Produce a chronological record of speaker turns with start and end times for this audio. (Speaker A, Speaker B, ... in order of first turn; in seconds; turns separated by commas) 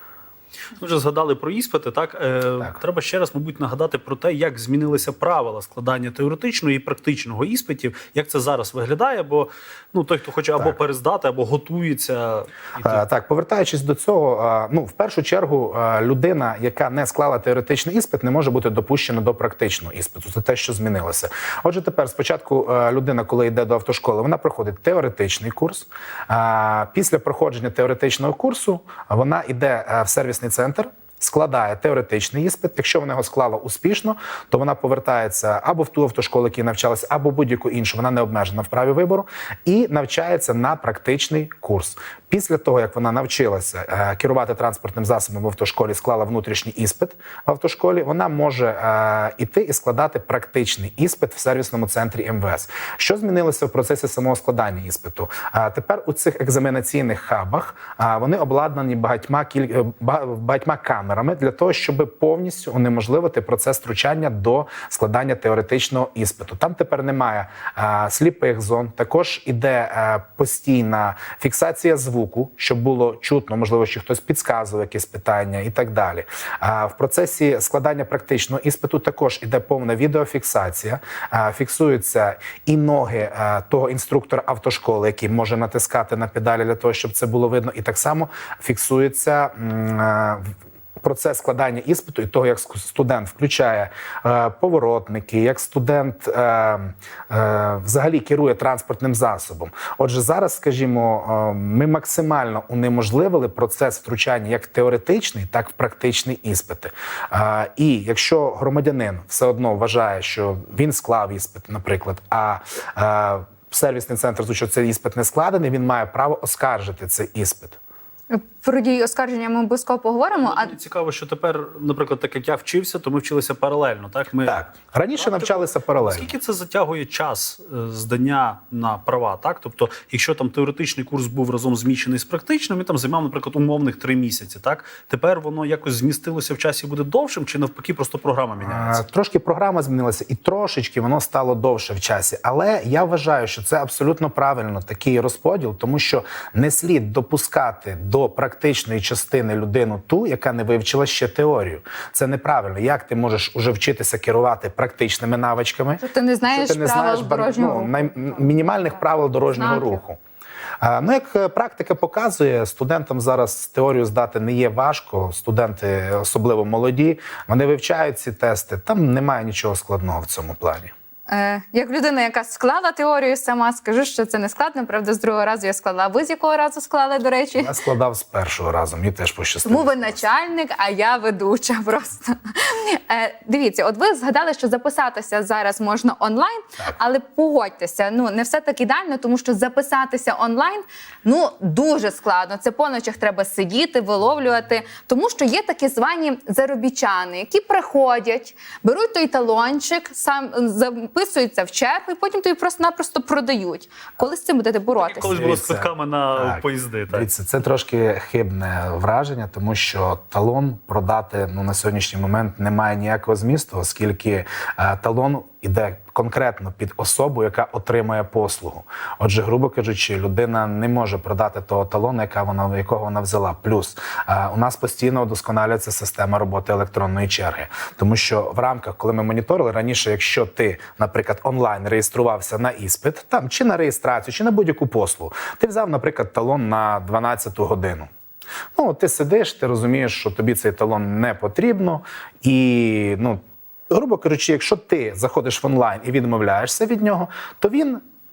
Speaker A: 0.8-13.0, Speaker B: 12.8-90.5, Speaker B: 91.0-117.8, Speaker C: 118.3-120.7, Speaker A: 120.4-124.6, Speaker B: 124.5-126.3, Speaker A: 125.2-139.0, Speaker B: 138.6-160.2, Speaker C: 156.0-158.6, Speaker C: 159.5-160.0, Speaker B: 160.8-170.9, Speaker C: 171.3-177.7, Speaker B: 177.6-180.3, Speaker C: 179.7-205.4, Speaker A: 205.0-207.3, Speaker B: 205.2-238.1, Speaker B: 238.8-248.0